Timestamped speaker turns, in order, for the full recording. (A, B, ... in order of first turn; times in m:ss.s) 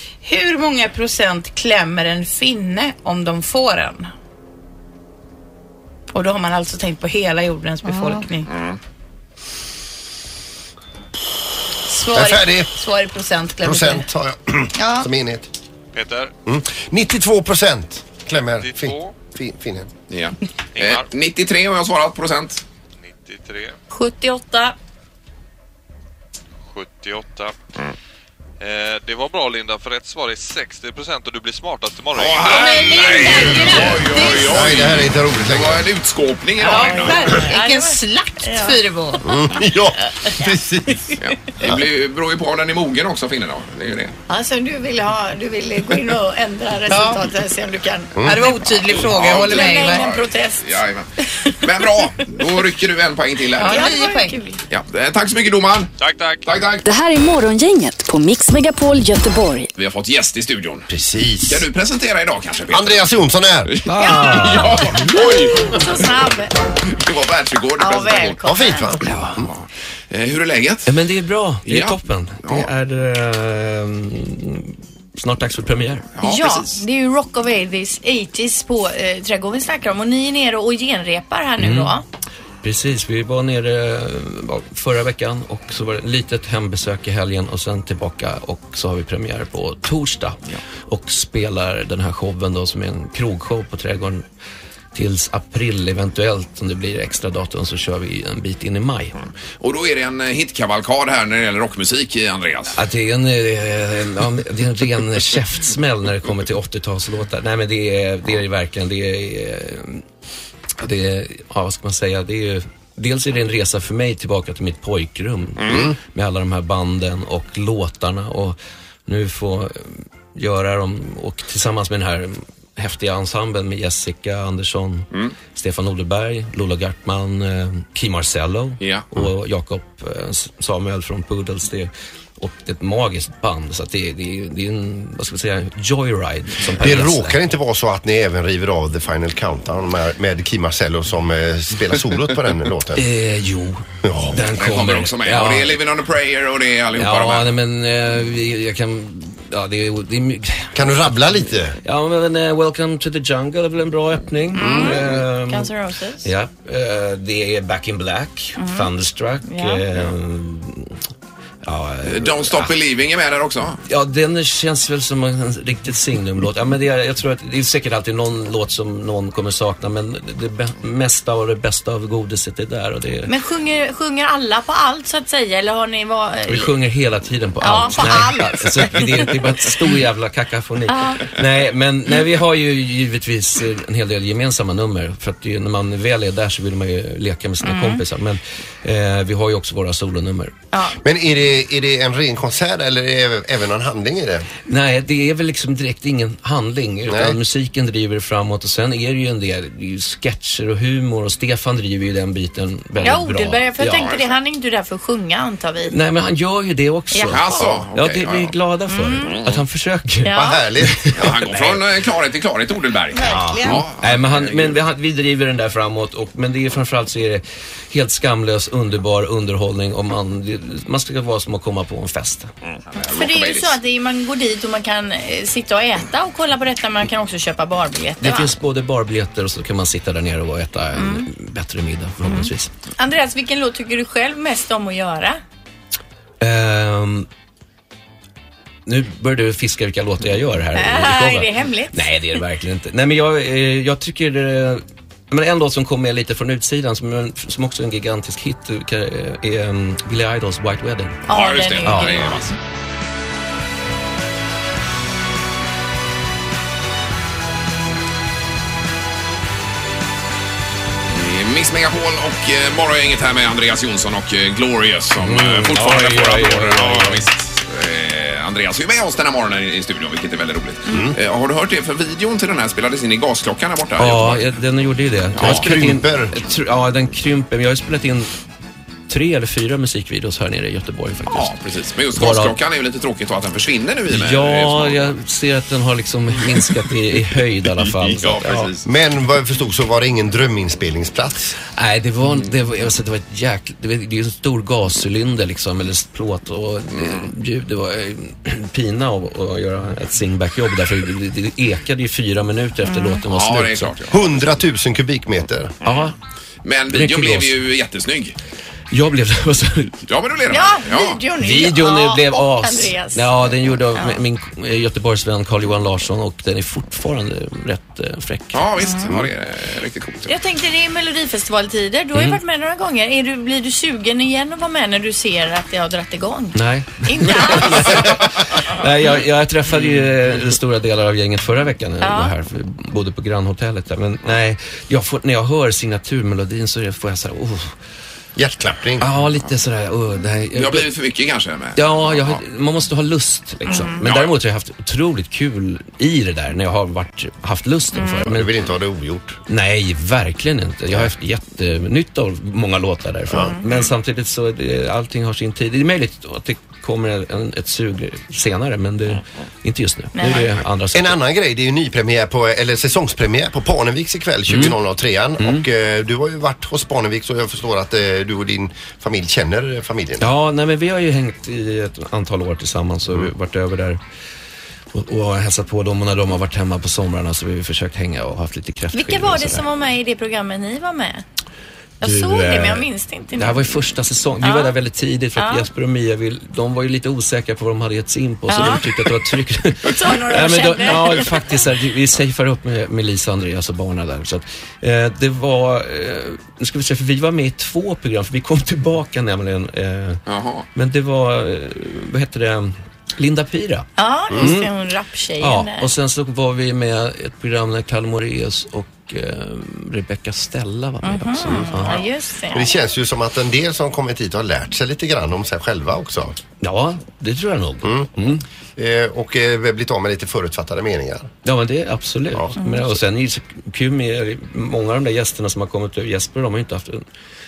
0:00.2-0:04.1 A
0:06.1-0:08.5 A
0:07.8-0:08.2 B
0:08.5-0:08.8 C
0:11.9-0:14.0 A
0:12.1-0:12.7 D
0:13.6-0:15.5 D
0:14.8-0:15.1 B
0:15.9-0:16.3 E
0:16.4-0:19.9 D
0:18.6-0:19.1 E
0:20.1-0:22.6 C
0:20.7-0:21.1 E
0:23.0-0:23.8 E
0:23.9-0:24.8 B
0:26.7-0:27.5 E
0:28.6-0:33.0 E
0:32.1-0:37.4 C
0:32.4-0:34.6 A
0:33.7-0:35.9 D
0:36.6-0:39.2 A
0:36.6-0:39.2 B
0:39.2-0:41.8 D
0:41.2-0:44.2 C
0:44.3-0:50.8 B
0:46.9-0:47.2 A
0:48.2-0:48.4 D
0:48.2-0:50.1 A
0:48.8-0:53.9 C
0:53.5-0:54.4 A
0:53.6-0:54.6 B
0:54.7-0:55.9 C
0:56.0-0:56.5 E
0:56.4-0:56.8 C
0:56.8-0:59.7 F
0:59.8-1:00.9 C
1:00.9-1:01.7 D
1:01.4-1:03.1 C
1:02.7-1:03.7 D
1:03.6-1:06.1 C
1:04.0-1:06.5 B
1:04.0-1:04.8 G
1:06.9-1:08.4 C
1:07.8-1:09.0 B
1:08.4-1:09.5 D
1:09.1-1:10.9 C
1:10.9-1:16.1 G
1:11.6-1:12.7 C
1:16.1-1:16.8 C
1:16.2-1:22.0 B
1:21.6-1:21.9 G
1:22.6-1:34.2 G
1:34.9-1:39.2 G
1:39.6-1:42.8 C
1:42.7-1:50.0 G
1:50.8-2:17.4 G
1:55.6-1:55.9 C
1:55.7-1:55.9 D
2:08.8-2:09.3 C
2:16.8-2:23.0 D
2:23.0-2:25.8 G
2:24.0-2:24.5 D
2:24.5-2:27.5 C
2:27.0-2:31.2 G
2:30.7-2:31.8 D
2:31.8-2:35.7 G
2:34.6-2:36.3 B
2:34.6-2:35.0 D
2:36.2-2:41.0 G
2:38.6-2:38.9 B
2:39.4-2:39.8 B
2:41.6-2:42.7 G
2:42.0-2:43.8 C
2:43.8-2:53.3 G
2:53.3-2:56.7 B
2:56.5-3:10.5 G
2:57.6-2:59.3 B
3:00.9-3:01.4 B
3:07.6-3:08.0 B
3:10.7-3:11.0 B
3:11.0-3:14.4 D
3:14.7-3:24.1 G
3:17.1-3:17.4 D
3:23.0-3:25.9 B
3:23.9-3:24.3 C
3:25.9-3:31.8 G
3:27.1-3:27.8 B
3:27.3-3:28.5 C
3:28.9-3:29.4 B
3:29.2-3:29.6 C
3:30.2-3:30.6 B
3:30.3-3:31.5 D
3:31.2-3:34.8 C
3:33.1-3:33.8 B
3:33.2-3:42.5 G
3:42.7-3:43.8 C
3:43.0-3:48.5 B
3:48.2-3:52.7 G
3:51.0-3:51.3 B
3:52.2-3:55.4 B
3:56.4-3:57.3 G
3:58.8-4:11.2 G
4:00.7-4:02.1 B
4:11.3-4:12.5 B
4:11.3-4:12.5 C
4:11.8-4:12.4 G
4:21.1-4:34.4 C
4:25.2-4:27.2 G
4:30.9-4:31.2 D
4:34.0-4:38.3 G
4:35.3-4:35.7 C
4:35.4-4:36.3 D
4:39.1-4:41.5 G
4:41.3-4:45.1 C
4:42.1-4:42.5 G
4:44.1-4:48.7 G
4:47.7-4:48.9 C
4:48.8-4:51.5 D
4:51.8-5:03.9 G
4:56.9-4:57.3 C
5:02.8-5:03.2 B
5:03.3-5:04.4 C
5:04.1-5:05.7 D
5:05.8-5:06.1 G
5:06.6-5:08.4 C
5:06.9-5:07.6 G
5:08.9-5:10.0 G
5:10.1-5:11.2 C
5:10.5-5:13.3 B
5:11.4-5:19.3 G
5:18.5-5:20.3 C
5:18.8-5:19.1 B
5:20.3-5:28.4 B
5:22.1-5:22.4 G
5:26.5-5:37.7 G
5:32.0-5:32.3 B
5:38.4-5:39.1 D
5:39.0-5:40.9 G
5:40.5-5:42.4 C
5:41.8-5:48.6 G
5:43.7-5:44.0 B
5:43.7-5:44.3 C
5:47.9-5:48.3 B
5:48.3-5:49.4 D
5:49.5-6:01.2 G
5:53.3-5:53.7 B
6:00.2-6:00.5 B
6:00.9-6:10.3 D
6:04.5-6:04.8 G
6:05.4-6:05.6 G
6:10.2-6:14.0 G
6:14.9-6:19.7 G
6:18.9-6:21.2 B
6:22.0-6:23.6 B
6:22.0-6:44.7 G
6:24.4-6:24.7 B
6:25.4-6:25.7 B
6:28.5-6:29.2 B
6:29.8-6:31.4 B
6:40.3-6:40.7 C
6:44.0-6:45.9 B
6:45.4-6:52.0 G
6:51.0-6:52.7 B
6:51.5-6:51.8 D
6:52.5-6:56.4 D
6:56.6-6:58.4 G
6:57.8-6:58.1 D
6:58.8-7:01.3 D
7:01.4-7:07.0 G
7:02.6-7:03.0 B